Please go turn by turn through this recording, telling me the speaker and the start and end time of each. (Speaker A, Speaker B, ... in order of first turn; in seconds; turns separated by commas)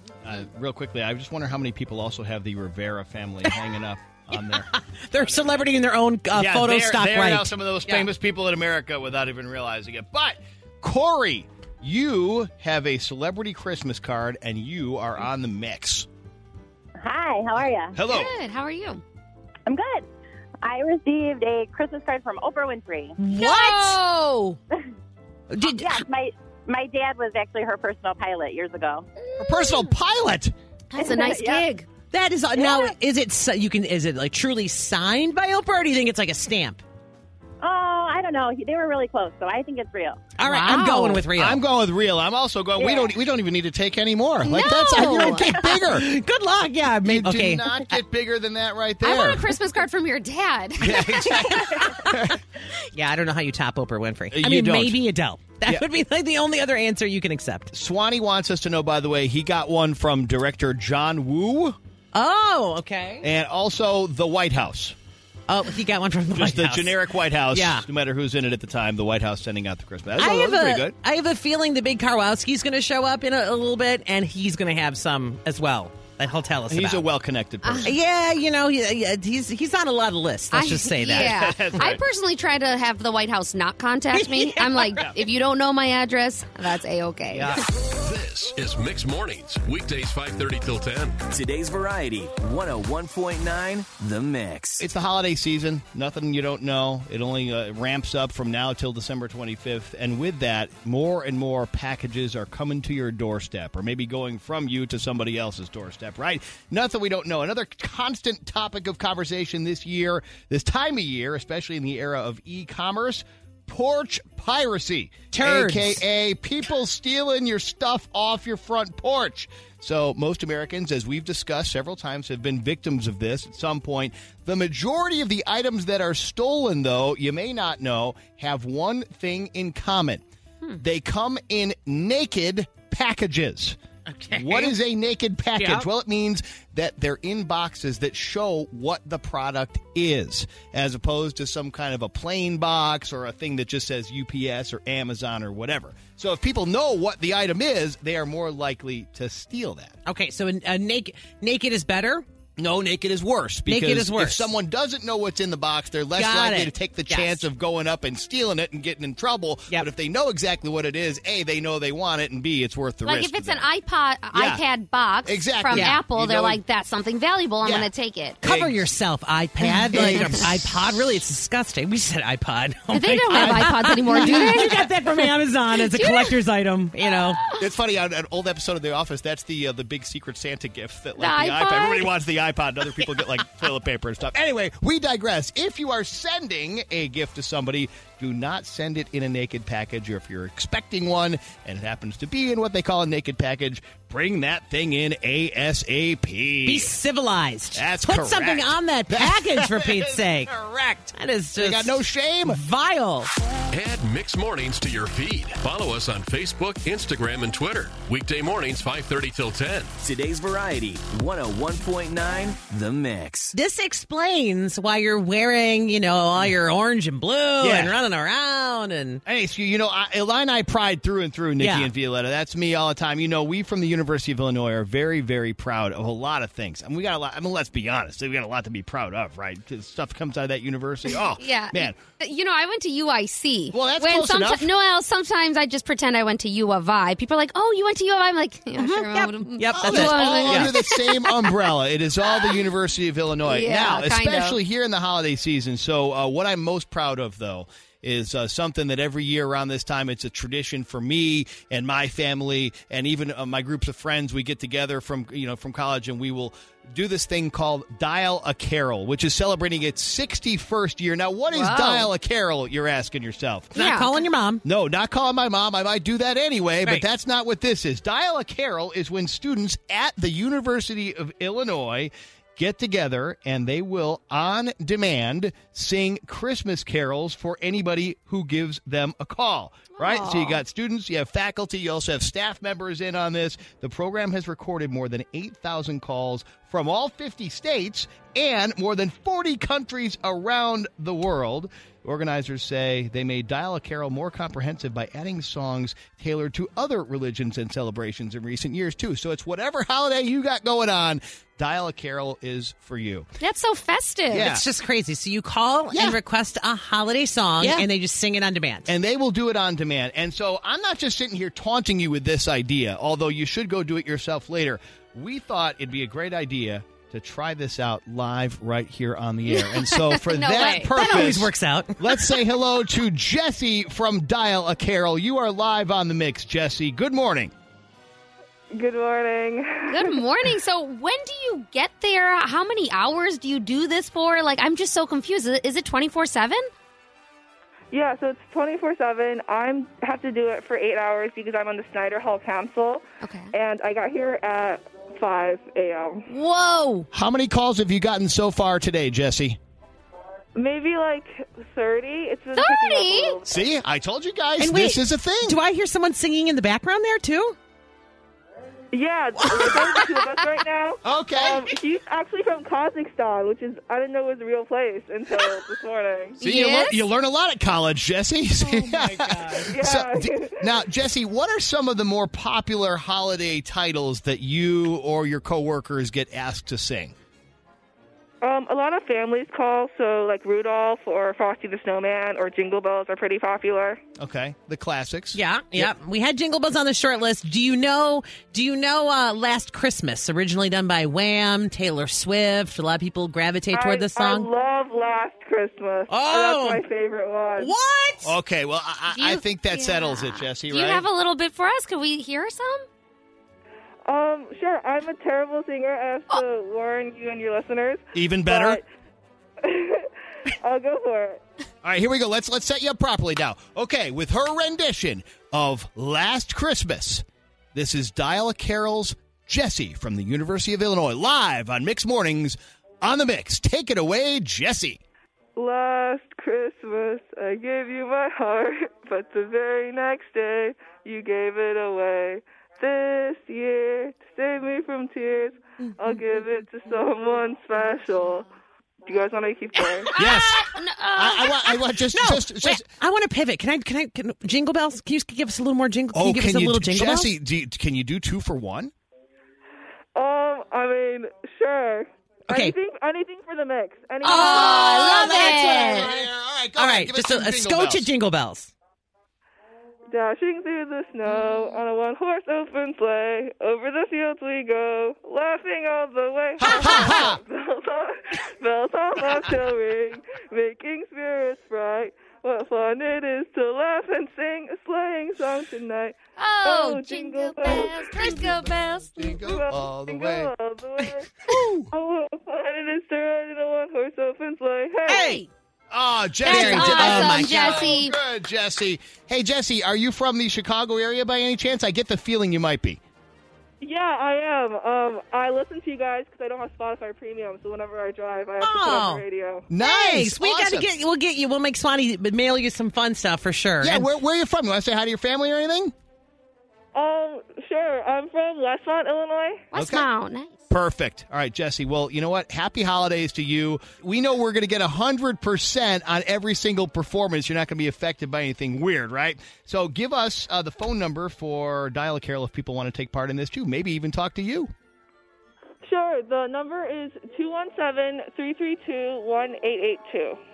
Speaker A: 0.2-5.7, Speaker B: 4.3-8.1, Speaker A: 6.3-16.1, Speaker C: 17.0-18.0, Speaker A: 17.9-18.4, Speaker D: 18.1-19.0, Speaker C: 19.7-20.1, Speaker C: 20.6-23.2, Speaker B: 23.2-24.0, Speaker D: 23.3-24.6, Speaker B: 25.5-26.1, Speaker C: 25.6-29.1, Speaker D: 29.2-29.9, Speaker A: 29.4-30.5, Speaker D: 30.9-31.9, Speaker C: 31.0-31.7, Speaker B: 32.1-36.8, Speaker C: 32.6-32.9, Speaker C: 37.6-40.3, Speaker B: 40.4-41.6, Speaker D: 40.5-41.3, Speaker A: 41.3-46.1, Speaker C: 42.8-43.1, Speaker D: 44.4-45.6, Speaker B: 45.0-47.7, Speaker A: 47.0-49.5, Speaker D: 49.0-51.9, Speaker A: 50.8-52.4, Speaker B: 51.8-52.2, Speaker B: 52.9-57.7, Speaker A: 54.3-55.0, Speaker A: 57.7-61.8, Speaker B: 62.1-63.3, Speaker A: 63.2-65.0, Speaker B: 65.5-67.0, Speaker A: 66.3-71.0, Speaker B: 67.5-67.9, Speaker B: 70.2-77.1, Speaker A: 76.7-78.0, Speaker D: 77.6-77.9, Speaker B: 77.8-81.6, Speaker D: 80.5-87.6, Speaker A: 81.0-82.0, Speaker B: 84.1-85.1, Speaker A: 87.3-87.6, Speaker E: 88.0-91.2, Speaker F: 91.3-94.8, Speaker A: 94.8-130.2, Speaker B: 115.3-116.0, Speaker A: 130.8-133.8, Speaker B: 134.1-134.8, Speaker A: 134.3-150.0, Speaker B: 135.6-135.9, Speaker B: 150.1-152.2, Speaker A: 152.6-163.7, Speaker B: 153.7-154.5, Speaker B: 156.2-157.5, Speaker D: 163.0-168.4, Speaker A: 164.3-164.6, Speaker A: 165.2-166.6, Speaker B: 165.7-166.0, Speaker A: 167.6-167.9, Speaker B: 168.4-177.4, Speaker A: 168.4-168.8, Speaker A: 169.6-171.0, Speaker D: 170.0-170.3, Speaker D: 172.9-174.9, Speaker A: 173.3-174.9, Speaker D: 175.7-176.4, Speaker D: 177.2-177.7, Speaker A: 177.5-197.0, Speaker D: 181.2-182.1, Speaker B: 196.7-200.5, Speaker A: 197.8-202.6, Speaker B: 201.1-203.3, Speaker E: 203.7-209.9, Speaker F: 210.0-213.5, Speaker B: 213.5-219.2, Speaker A: 217.6-218.0, Speaker A: 219.3-232.0, Speaker B: 221.6-221.9, Speaker D: 231.3-241.7, Speaker A: 233.7-234.7, Speaker B: 238.8-240.7, Speaker A: 239.7-263.8, Speaker D: 242.3-242.6, Speaker D: 243.4-244.6, Speaker D: 261.5-262.1, Speaker D: 263.7-264.2, Speaker B: 263.8-264.6, Speaker A: 264.6-303.3, Speaker D: 280.0-280.6, Speaker D: 303.4-304.5, Speaker A: 304.3-304.6, Speaker B: 304.3-308.9, Speaker A: 305.9-306.2, Speaker A: 308.9-327.5, Speaker D: 319.5-321.3, Speaker B: 320.7-322.1, Speaker G: 328.7-330.2, Speaker D: 329.9-336.7, Speaker G: 337.9-346.3, Speaker D: 343.2-343.5, Speaker D: 346.3-347.1, Speaker A: 347.1-349.6, Speaker G: 350.6-353.6, Speaker D: 352.6-353.4, Speaker A: 353.5-355.6, Speaker B: 354.6-357.6, Speaker G: 358.9-366.4, Speaker B: 359.4-360.1, Speaker A: 361.0-361.7, Speaker D: 366.4-367.1, Speaker A: 366.4-377.1, Speaker B: 368.6-369.7, Speaker G: 369.7-370.7, Speaker G: 378.4-384.0, Speaker A: 384.2-385.9, Speaker B: 385.3-394.5, Speaker G: 393.7-397.7, Speaker B: 396.1-396.8, Speaker B: 397.6-398.4, Speaker A: 398.2-401.1, Speaker D: 399.1-402.9, Speaker G: 404.1-408.9, Speaker A: 408.1-408.8, Speaker G: 409.6-411.4, Speaker A: 411.8-425.0, Speaker G: 425.6-438.5, Speaker G: 439.1-440.1, Speaker D: 440.1-441.8, Speaker A: 440.2-442.9, Speaker B: 442.1-447.3, Speaker A: 446.1-448.9, Speaker G: 450.1-455.0, Speaker B: 452.5-452.8, Speaker D: 454.2-456.1, Speaker B: 454.2-458.7, Speaker A: 454.5-458.1, Speaker G: 460.1-478.3, Speaker D: 461.3-461.8, Speaker A: 466.6-467.4, Speaker D: 466.8-467.2, Speaker D: 476.4-479.4, Speaker A: 477.7-480.5, Speaker G: 479.4-481.3, Speaker A: 481.5-481.9, Speaker G: 481.9-485.4, Speaker B: 485.1-485.5, Speaker D: 485.1-485.4, Speaker A: 485.9-493.0, Speaker B: 486.4-488.0, Speaker D: 486.4-488.1, Speaker G: 493.8-499.7, Speaker B: 498.6-499.2, Speaker A: 499.7-500.9, Speaker B: 499.8-504.1, Speaker A: 503.8-505.9, Speaker G: 506.9-509.7, Speaker D: 509.7-510.6, Speaker A: 509.8-510.1, Speaker A: 510.7-524.7, Speaker G: 525.8-530.4